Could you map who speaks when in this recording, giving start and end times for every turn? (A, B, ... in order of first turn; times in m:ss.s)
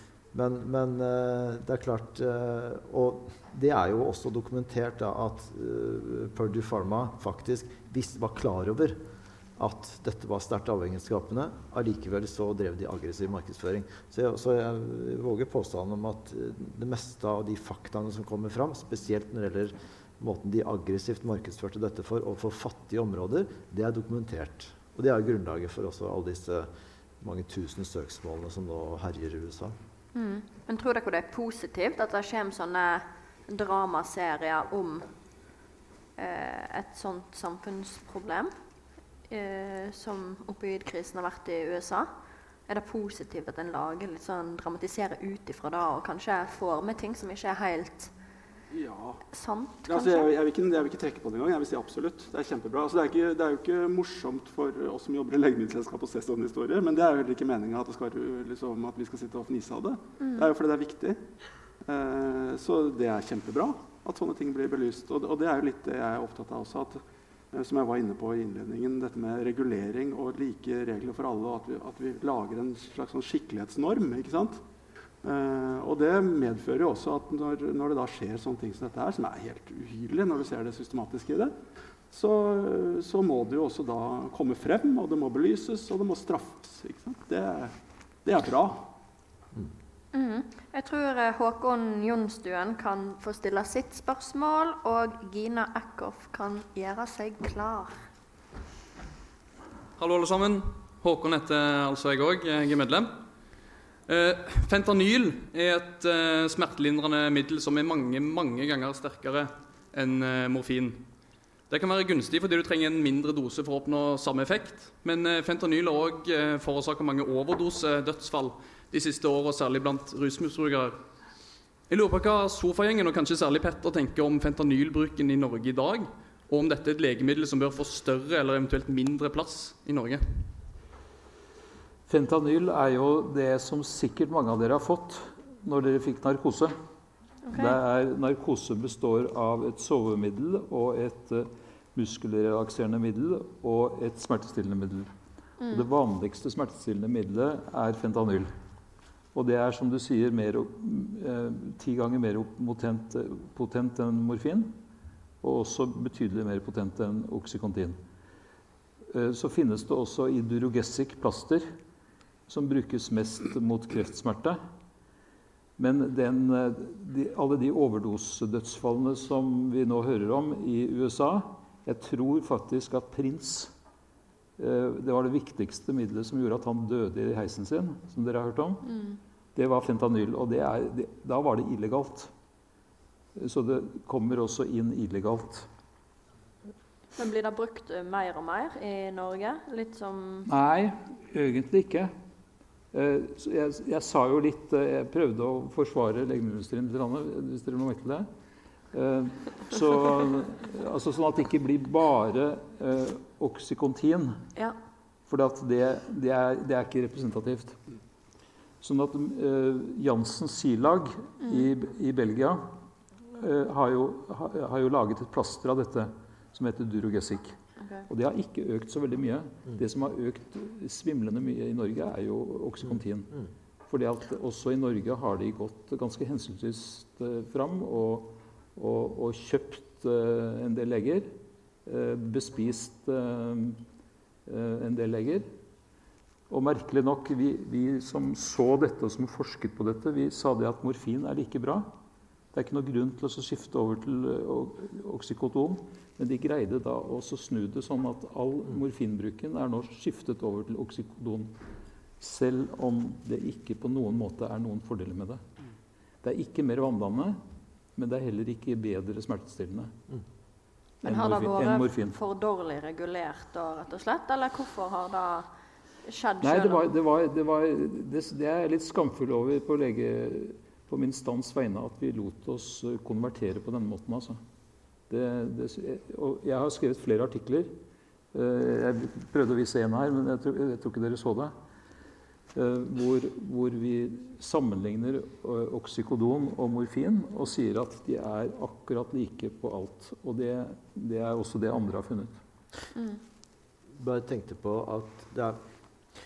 0:00.3-0:09.0 A
0:09.6-0:26.7 A
0:27.2-0:29.8 A
0:30.1-0:35.1 B
0:36.2-0:38.5 B
0:39.3-0:42.1 B
0:42.7-0:48.1 B
0:48.7-0:49.2 C
0:49.3-0:50.3 B
0:49.9-1:01.2 C
1:00.2-1:00.5 B
1:01.8-1:07.0 C
1:07.5-1:14.6 C
1:15.2-1:21.6 C
1:22.1-1:27.7 C
1:28.2-1:28.9 C
1:30.1-1:38.0 B
1:40.0-1:43.1 D
1:44.1-1:51.0 D
1:51.7-2:01.0 D
2:01.9-2:10.2 D
2:12.1-2:16.7 E
2:17.5-2:17.8 B
2:17.5-2:25.1 E
2:25.6-2:25.9 B
2:25.7-2:28.5 E
2:29.3-2:34.8 E
2:35.4-2:38.0 E
2:39.1-2:41.7 E
2:42.5-2:44.6 E
2:45.8-2:53.7 E
2:54.6-2:58.8 E
2:58.8-2:59.2 B
2:59.6-3:02.3 E
3:03.4-3:05.7 E
3:07.2-3:10.5 B
3:10.5-3:12.1 E
3:12.9-3:18.3 E
3:18.9-3:24.4 E
3:25.3-3:27.8 E
3:28.8-3:32.6 E
3:31.4-3:31.7 B
3:33.3-3:37.6 E
3:37.8-3:38.1 B
3:38.1-3:43.3 E
3:43.9-3:51.3 E
3:51.9-3:53.8 E
3:54.5-3:55.5 E
3:56.5-4:01.9 E
4:02.5-4:11.5 E
4:12.2-4:15.4 E
4:16.2-4:17.4 E
4:18.0-4:19.9 E
4:21.0-4:25.5 B
4:21.0-4:22.2 E
4:26.0-4:26.9 B
4:26.4-4:34.4 E
4:35.1-4:37.7 E
4:38.3-4:41.5 E
4:42.6-4:52.4 E
4:52.9-4:53.2 B
4:54.0-4:55.6 A